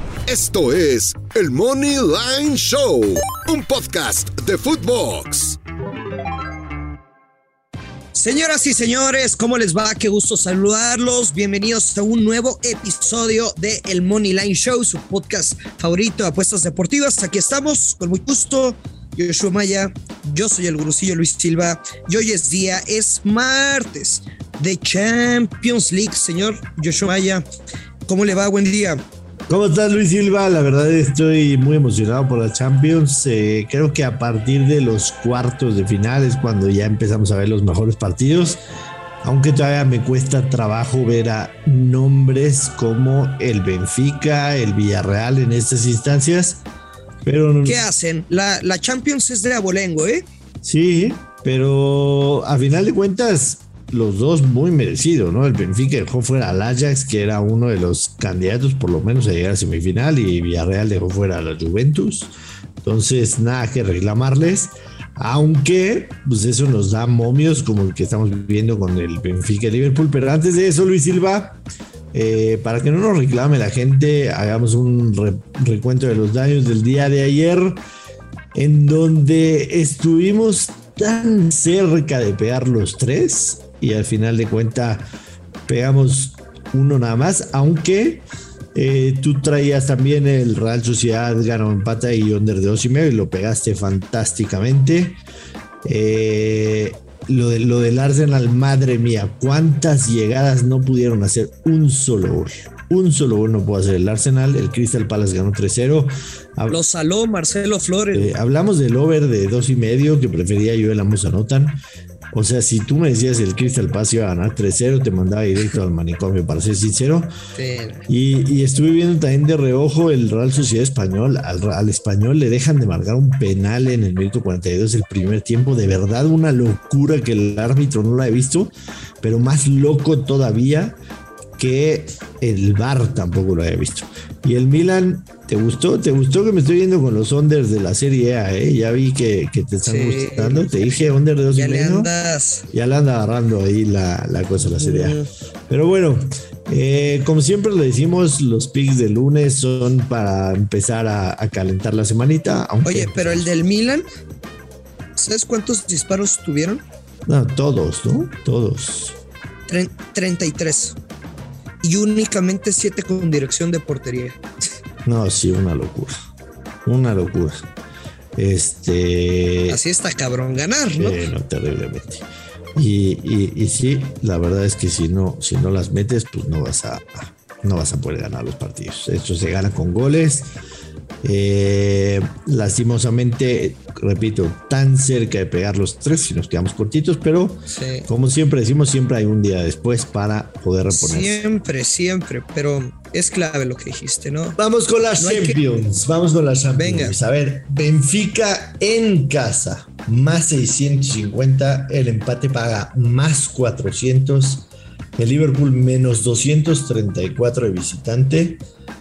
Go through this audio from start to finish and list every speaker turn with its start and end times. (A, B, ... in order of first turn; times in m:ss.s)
0:00.3-0:05.6 A
0:08.1-0:27.4 B
0:28.0-0:29.0 B
0:29.5-0:38.6 C
0:39.2-0:46.6 C
0:47.2-0:47.8 C
0:47.6-0:50.3 B
0:50.6-1:11.6 C
1:12.1-1:17.8 C
1:18.5-1:25.0 C
1:25.7-1:35.2 C
1:35.8-1:46.8 C
1:46.7-1:48.4 B
1:48.1-1:51.8 C
1:52.3-1:57.3 C
1:57.5-1:58.0 B
1:58.1-2:11.0 C
2:11.6-2:22.1 C
2:19.8-2:20.8 B
2:21.5-2:22.6 B
2:22.7-2:33.5 C
2:24.6-2:25.3 B
2:32.8-2:34.0 B
2:35.2-2:36.8 B
2:37.2-2:39.2 C
2:39.7-2:41.0 B
2:41.8-2:44.4 B
2:45.0-2:46.1 C
2:46.8-2:47.6 C
2:48.4-2:49.8 C
2:49.7-2:51.2 B
2:50.9-3:00.5 C
3:01.2-3:11.4 C
3:07.7-3:08.1 B
3:10.9-3:14.6 B
3:14.6-3:28.6 C
3:15.2-3:15.6 B
3:16.7-3:17.2 B